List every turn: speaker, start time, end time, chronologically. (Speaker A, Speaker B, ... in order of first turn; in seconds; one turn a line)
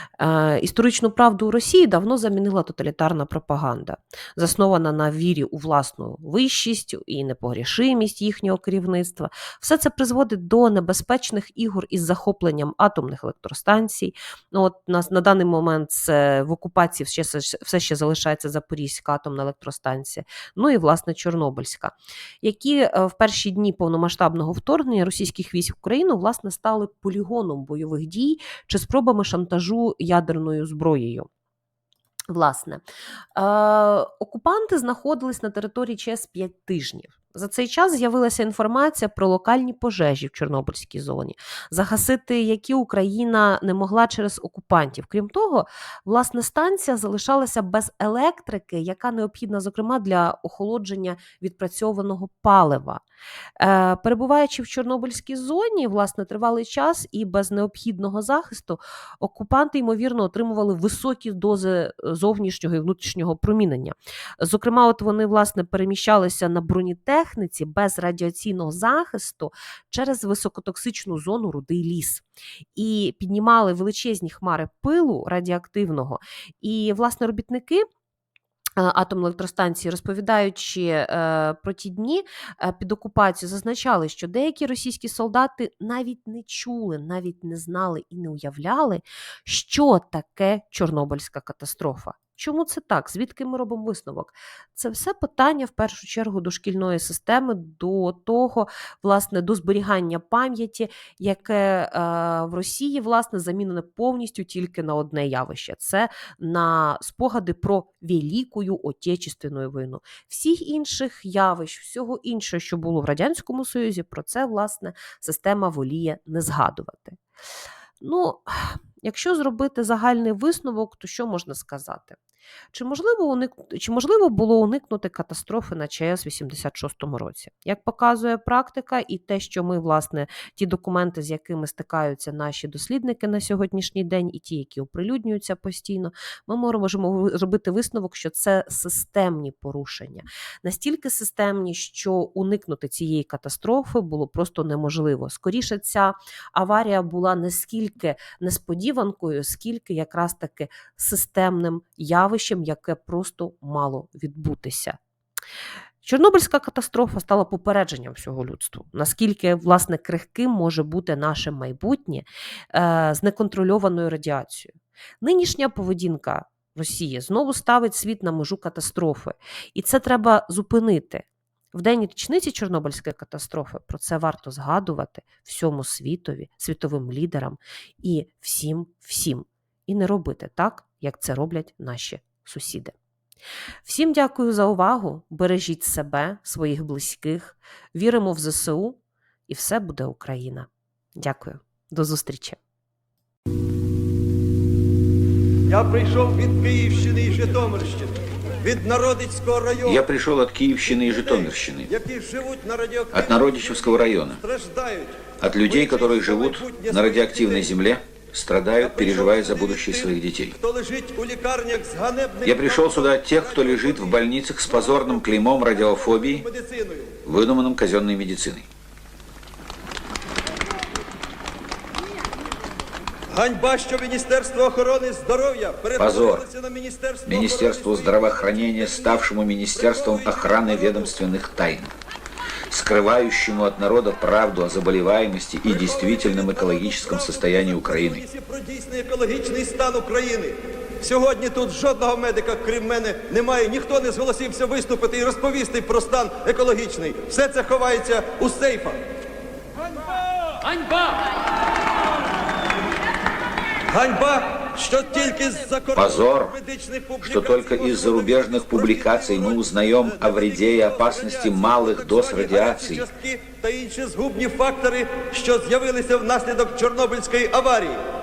Speaker A: 0.2-31.3
Speaker A: 32.3-32.8
Speaker A: 33.4-53.0
Speaker A: 53.6-72.2
Speaker A: 72.7-77.9
Speaker A: 78.8-117.2
Speaker A: 118.0-122.2
Speaker A: 122.7-155.0
Speaker A: 156.0-182.9
Speaker A: 183.8-192.6
Speaker B: 195.7-200.0
Speaker C: 199.8-201.9
Speaker B: 200.9-207.8
Speaker C: 203.1-204.4
Speaker C: 205.4-210.6
Speaker B: 208.7-217.2
Speaker C: 212.4-216.4
Speaker C: 217.2-218.7
Speaker B: 223.3-231.2
Speaker C: 226.0-226.4
Speaker C: 227.2-231.9
Speaker C: 232.7-238.2
Speaker B: 235.6-249.0
Speaker B: 250.6-251.2
Speaker B: 253.9-268.0
Speaker C: 255.9-256.6
Speaker C: 257.2-263.1